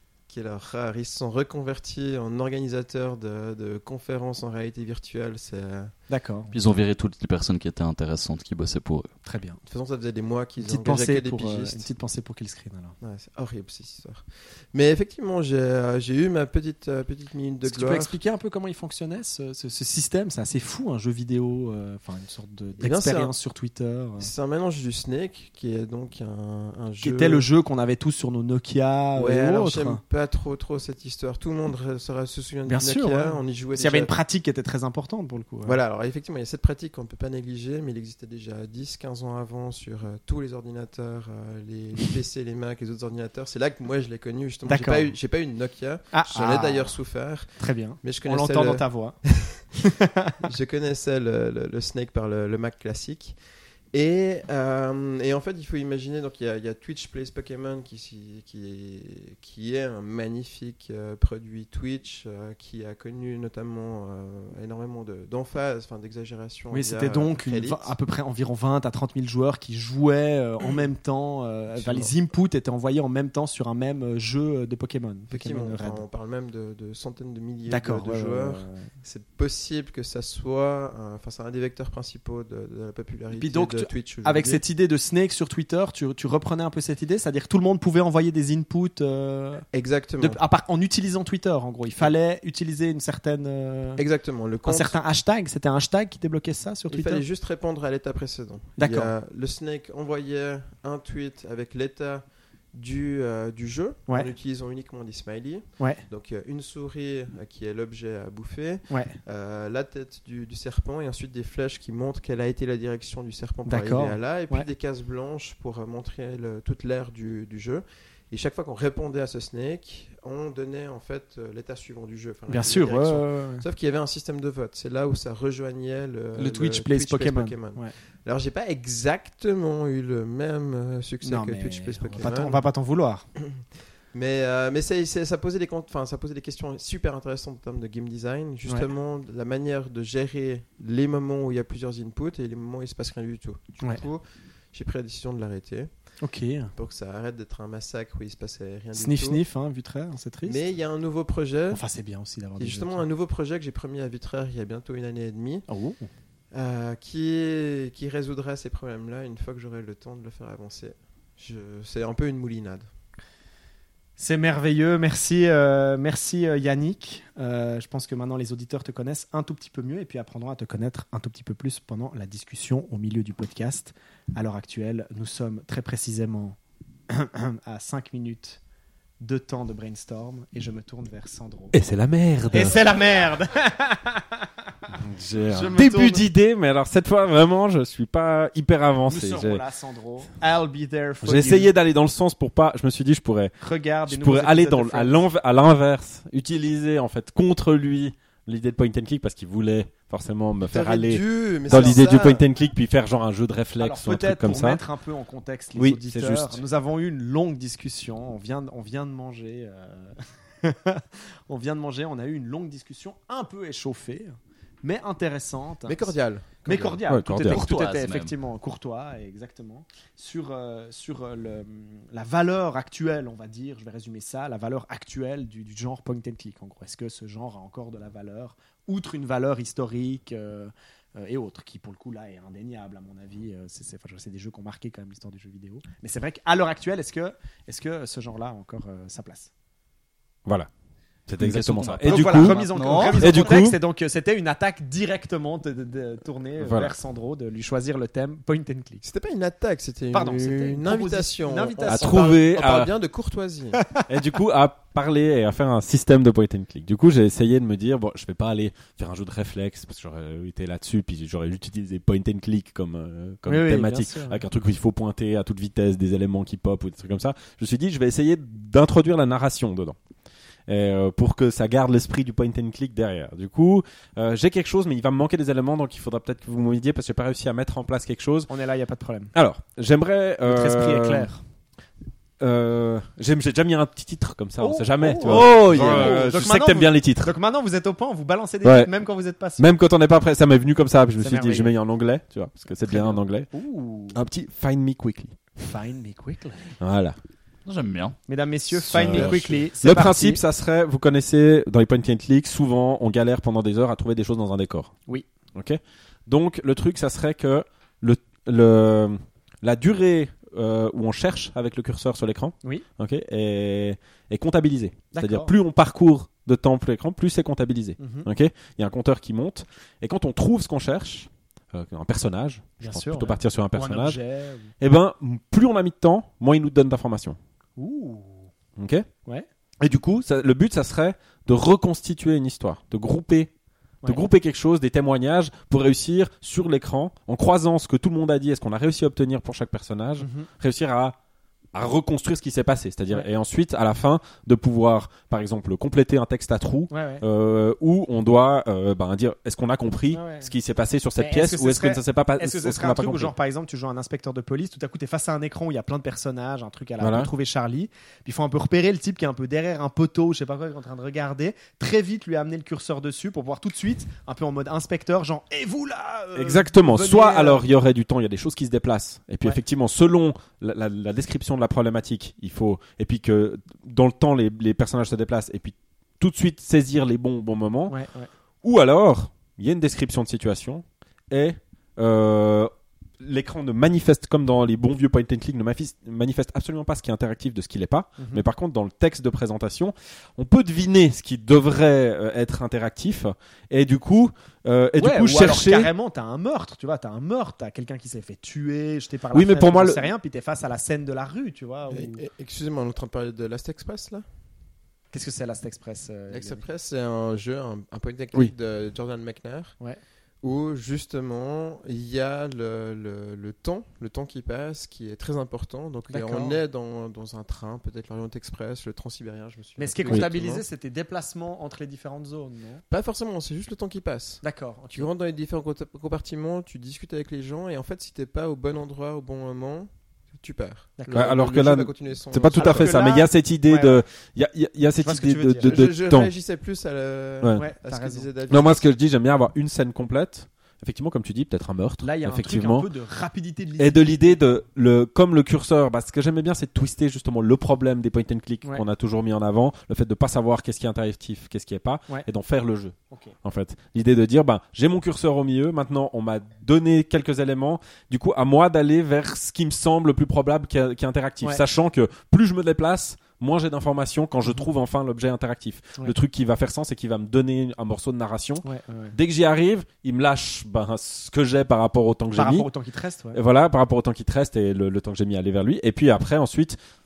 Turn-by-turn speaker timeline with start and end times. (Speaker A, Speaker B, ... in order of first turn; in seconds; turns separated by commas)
Speaker A: 0.3-5.9, Speaker B: 6.1-6.5, Speaker C: 6.5-9.1, Speaker B: 9.2-9.6, Speaker A: 9.7-11.9, Speaker B: 10.6-12.9, Speaker A: 13.0-18.1, Speaker B: 17.6-24.3, Speaker A: 22.8-23.3, Speaker A: 24.2-27.4, Speaker B: 27.0-30.0, Speaker A: 29.1-34.1, Speaker B: 32.7-35.8, Speaker A: 35.6-49.6, Speaker B: 44.7-45.1, Speaker B: 46.1-47.0, Speaker B: 47.6-49.2, Speaker B: 50.0-50.4, Speaker A: 50.4-53.4, Speaker A: 53.9-67.9, Speaker B: 66.7-76.0, Speaker A: 71.8-72.1, Speaker A: 75.3-84.6, Speaker B: 77.7-78.9, Speaker B: 83.4-89.6, Speaker A: 89.7-90.4, Speaker B: 90.2-94.0, Speaker A: 94.0-94.9, Speaker B: 94.7-97.2, Speaker A: 96.9-132.6, Speaker B: 98.8-99.1, Speaker B: 108.9-109.2, Speaker B: 113.7-114.7, Speaker B: 122.5-123.6, Speaker B: 126.3-127.9, Speaker B: 131.2-133.3, Speaker A: 133.4-145.9, Speaker B: 146.2-146.7, Speaker A: 146.8-149.4, Speaker B: 148.9-150.6, Speaker A: 150.4-151.8, Speaker B: 151.7-153.1, Speaker A: 152.6-155.7, Speaker B: 155.7-156.1, Speaker A: 156.5-162.9, Speaker B: 164.2-176.6, Speaker B: 177.1-178.6, Speaker B: 179.2-181.7, Speaker D: 181.7-182.8, Speaker B: 182.5-184.5, Speaker D: 184.9-189.6, Speaker B: 185.5-186.2, Speaker B: 189.1-191.7, Speaker D: 191.2-193.5, Speaker B: 193.6-195.3, Speaker D: 194.1-204.8, Speaker A: 200.6-202.4, Speaker B: 203.8-216.1, Speaker D: 205.8-206.6, Speaker A: 215.9-217.0, Speaker B: 216.6-239.5, Speaker D: 217.1-217.6, Speaker C: 217.5-218.3, Speaker D: 241.3-243.8, Speaker C: 241.4-243.4, Speaker B: 242.0-249.0, Speaker D: 246.6-246.9, Speaker A: 249.0-253.8, Speaker B: 250.1-252.4, Speaker D: 251.9-252.9, Speaker D: 254.1-270.0, Speaker B: 263.4-264.4, Speaker D: 270.7-278.5, Speaker B: 278.5-279.3, Speaker D: 279.3-281.3, Speaker B: 280.4-281.4, Speaker D: 282.4-287.3, Speaker B: 284.6-289.6, Speaker C: 285.3-285.9, Speaker D: 288.6-288.9, Speaker D: 289.6-293.5, Speaker B: 291.2-291.7, Speaker B: 292.9-294.2, Speaker D: 294.1-295.4, Speaker B: 295.6-296.8, Speaker D: 296.8-297.1, Speaker C: 297.6-298.2, Speaker B: 298.3-300.4, Speaker D: 298.9-304.9, Speaker D: 305.5-324.2, Speaker B: 315.1-315.6, Speaker B: 318.0-318.3, Speaker B: 322.8-324.7, Speaker D: 324.8-327.4, Speaker B: 327.8-328.5, Speaker D: 328.8-329.1, Speaker D: 329.8-333.5, Speaker D: 334.0-341.1, Speaker B: 340.2-340.5, Speaker D: 341.7-353.3, Speaker B: 346.9-347.2, Speaker B: 350.1-350.5, Speaker B: 351.2-367.6, Speaker D: 357.0-357.3, Speaker D: 366.3-377.9, Speaker B: 377.9-378.3, Speaker D: 378.6-395.9, Speaker B: 388.2-388.4, Speaker B: 395.0-402.2, Speaker D: 399.3-400.1, Speaker A: 401.9-404.2, Speaker B: 405.1-406.6, Speaker A: 406.3-409.8, Speaker A: 410.4-420.6, Speaker B: 416.1-416.6, Speaker B: 419.8-422.8, Speaker A: 422.9-424.4, Speaker B: 424.4-425.1, Speaker A: 424.9-433.0, Speaker B: 431.0-431.4, Speaker D: 431.1-436.3, Speaker B: 432.5-434.0, Speaker B: 435.0-435.8, Speaker A: 435.6-438.9, Speaker B: 437.6-438.3, Speaker D: 438.5-442.9, Speaker B: 442.0-444.4, Speaker D: 443.8-472.7, Speaker B: 468.6-469.1, Speaker B: 472.3-473.4, Speaker D: 473.3-476.8